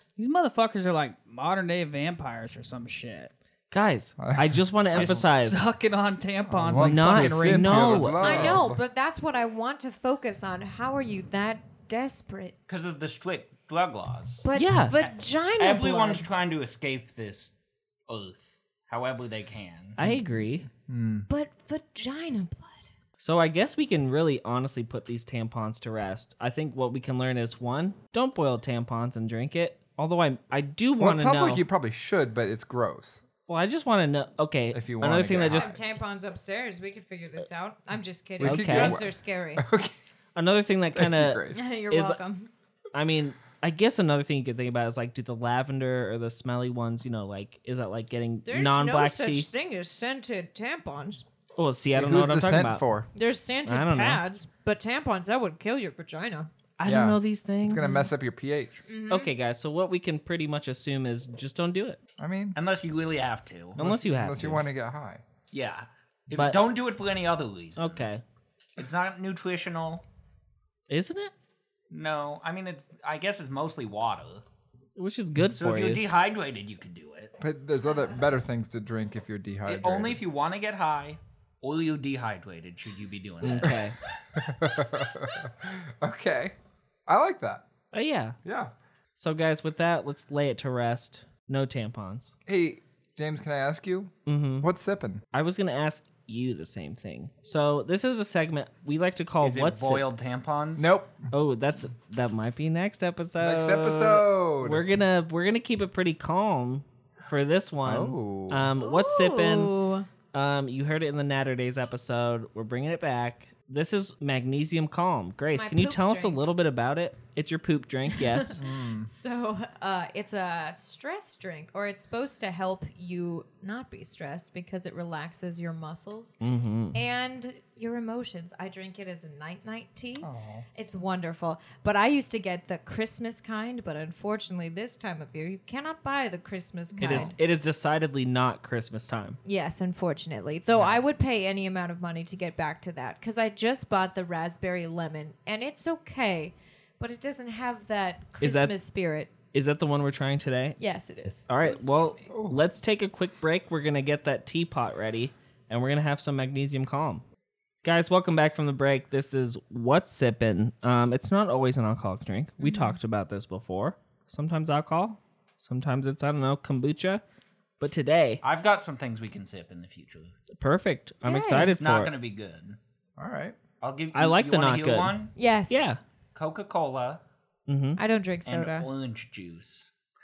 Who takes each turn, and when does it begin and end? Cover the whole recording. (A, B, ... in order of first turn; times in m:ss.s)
0:00.2-0:03.3 A
0:03.7-0:05.6 B
0:04.2-0:05.2 C
0:04.9-0:05.2 D
0:05.0-0:08.2 A
0:06.5-0:08.8 C
0:06.7-0:08.5 B
0:08.2-0:12.5 E
0:08.3-0:08.5 D
0:12.7-0:14.5 D
0:14.4-0:16.3 E
0:14.5-0:15.0 B
0:15.0-0:17.5 D
0:18.1-0:20.0 D
0:20.0-0:20.7 B
0:20.0-0:21.3 C
0:21.3-0:22.8 E
0:23.2-0:31.6 B
0:31.0-0:33.2 C
0:33.5-0:35.7 B
0:34.7-0:35.8 C
0:35.5-0:39.6 E
0:38.4-0:39.9 C
0:38.4-0:39.0 B
0:40.3-0:42.2 B
0:40.9-0:41.7 C
0:41.5-0:42.5 E
0:42.9-0:49.5 B
0:48.4-0:51.2 E
0:51.6-0:52.8 B
0:51.9-0:53.1 C
0:53.1-0:56.5 E
0:53.6-0:54.2 B
0:56.8-0:58.0 B
0:56.8-0:58.8 C
0:58.9-0:59.3 E
0:59.1-1:02.0 B
1:02.2-1:02.6 C
1:02.5-1:03.8 D
1:03.8-1:04.6 B
1:03.8-1:05.2 C
1:05.5-1:08.1 D
1:06.3-1:06.6 B
1:07.8-1:08.2 B
1:08.8-1:10.0 D
1:10.9-1:11.3 B
1:11.9-1:14.4 D
1:15.0-1:16.0 B
1:15.5-1:17.3 D
1:17.4-1:20.2 C
1:17.9-1:18.3 E
1:19.6-1:23.9 D
1:23.4-1:23.9 B
1:23.6-1:26.5 C
1:27.1-1:27.6 C
1:27.9-1:28.4 B
1:28.4-1:28.7 C
1:29.2-1:32.3 B
1:32.5-1:35.2 C
1:34.2-1:34.7 B
1:35.3-1:40.0 B
1:39.4-1:40.9 D
1:40.8-1:41.2 C
1:41.3-1:49.7 B
1:43.4-1:44.8 C
1:47.8-1:48.7 C
1:48.8-1:50.1 E
1:50.3-1:58.6 B
1:55.5-1:56.4 E
1:58.1-2:06.4 E
1:58.6-1:59.1 C
2:06.4-2:07.0 B
2:06.9-2:17.3 E
2:10.2-2:10.6 C
2:17.0-2:17.3 A
2:17.0-2:19.4 B
2:19.4-2:29.3 E
2:28.4-2:28.7 B
2:29.5-2:30.8 B
2:30.8-2:32.3 E
2:31.5-2:37.2 B
2:32.3-2:32.6 C
2:37.8-2:47.2 B
2:42.6-2:43.0 E
2:47.8-2:48.4 B
2:48.4-2:50.3 D
2:50.6-2:52.1 B
2:51.2-2:51.8 E
2:51.7-2:52.8 D
2:53.2-2:53.6 C
2:53.8-2:55.3 D
2:54.1-2:55.2 B
2:55.4-2:55.8 E
2:55.7-2:56.0 B
2:56.3-2:57.2 D
2:57.7-2:58.0 B
2:58.0-2:58.9 E
2:58.4-2:59.9 D